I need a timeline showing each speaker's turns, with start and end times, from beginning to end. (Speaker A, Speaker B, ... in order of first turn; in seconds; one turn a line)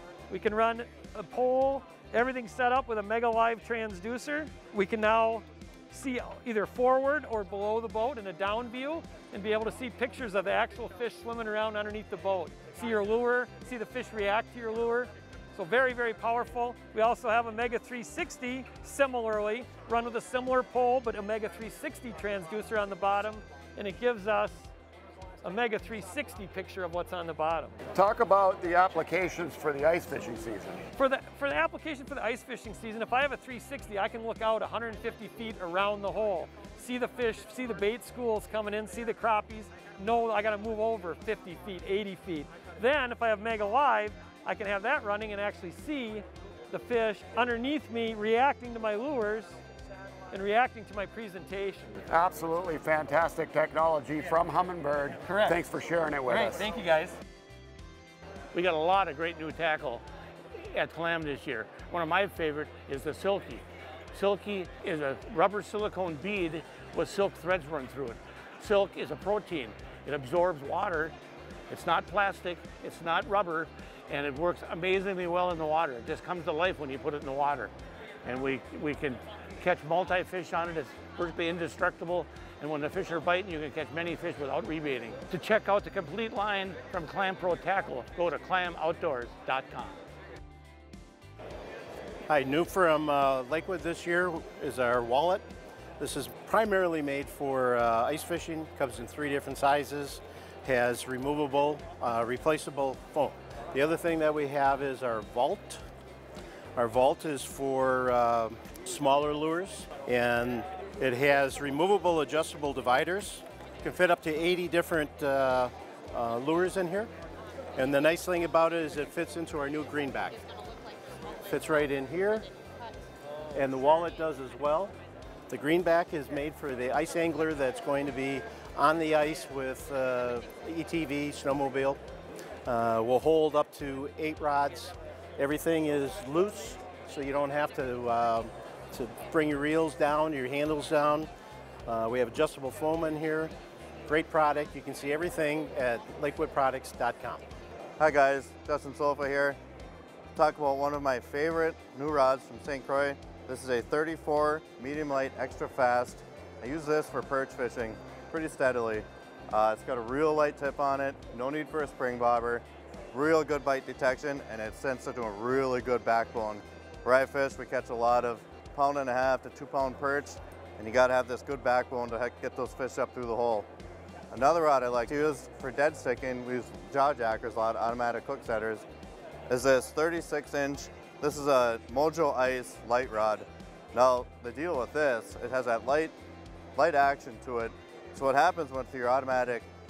Speaker A: 0.3-24.7
Speaker A: 25.4-27.8
Speaker B: 27.9-30.8
Speaker A: 31.0-49.6
Speaker A: 50.3-52.0
Speaker B: 52.1-56.7
Speaker A: 55.3-55.5
Speaker A: 56.3-57.1
Speaker C: 58.5-60.0
Speaker C: 60.7-71.2
Speaker C: 71.7-77.7
Speaker C: 78.2-90.0
Speaker D: 92.3-95.5
Speaker D: 96.0-105.8
Speaker D: 106.8-117.1
Speaker D: 117.8-120.4
Speaker D: 121.5-122.5
Speaker D: 123.5-124.9
Speaker D: 125.5-132.0
Speaker D: 132.7-141.3
Speaker D: 141.9-143.5
Speaker D: 144.1-147.4
Speaker E: 148.0-149.6
Speaker E: 150.3-173.7
Speaker E: 174.3-178.8
Speaker E: 179.5-186.1
Speaker E: 186.8-189.7